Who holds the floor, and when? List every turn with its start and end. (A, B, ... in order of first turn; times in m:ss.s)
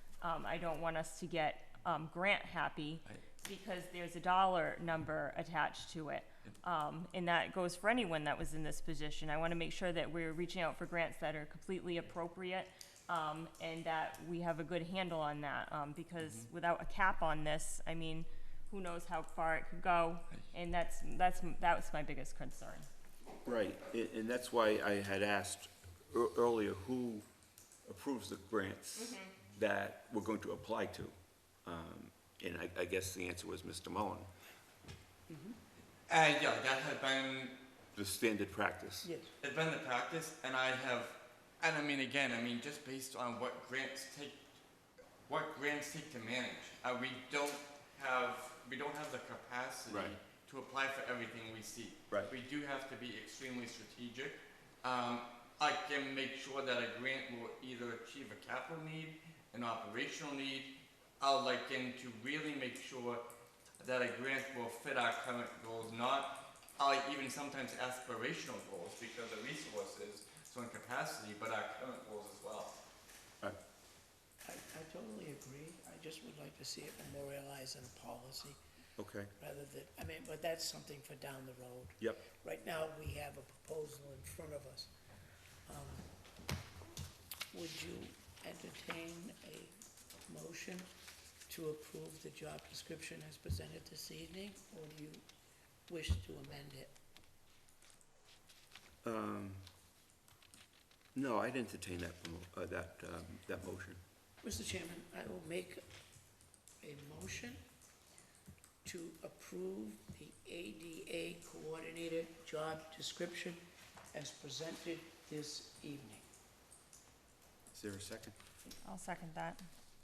0:00.2-0:22.9 A
0:23.4-0:27.2 B
0:27.8-0:34.3 B
0:35.3-0:35.6 C
0:36.1-0:37.6 D
0:37.9-0:39.1 B
0:39.0-0:39.3 C
0:39.4-0:44.4 D
0:45.3-1:03.2 D
0:49.9-0:50.1 B
1:03.8-1:12.7 D
1:14.4-1:18.6 C
1:19.0-1:19.3 B
1:19.4-1:24.9 C
1:22.0-1:22.2 B
1:25.6-1:26.1 C
1:27.5-1:29.7 C
1:30.3-1:30.9 C
1:31.5-1:35.2 C
1:35.9-1:36.9 C
1:39.0-1:39.7 B
1:41.1-1:44.0 B
1:44.4-1:45.8 C
1:46.8-1:47.6 C
1:48.8-1:56.2 C
1:57.7-1:58.3 B
1:58.8-1:59.6 A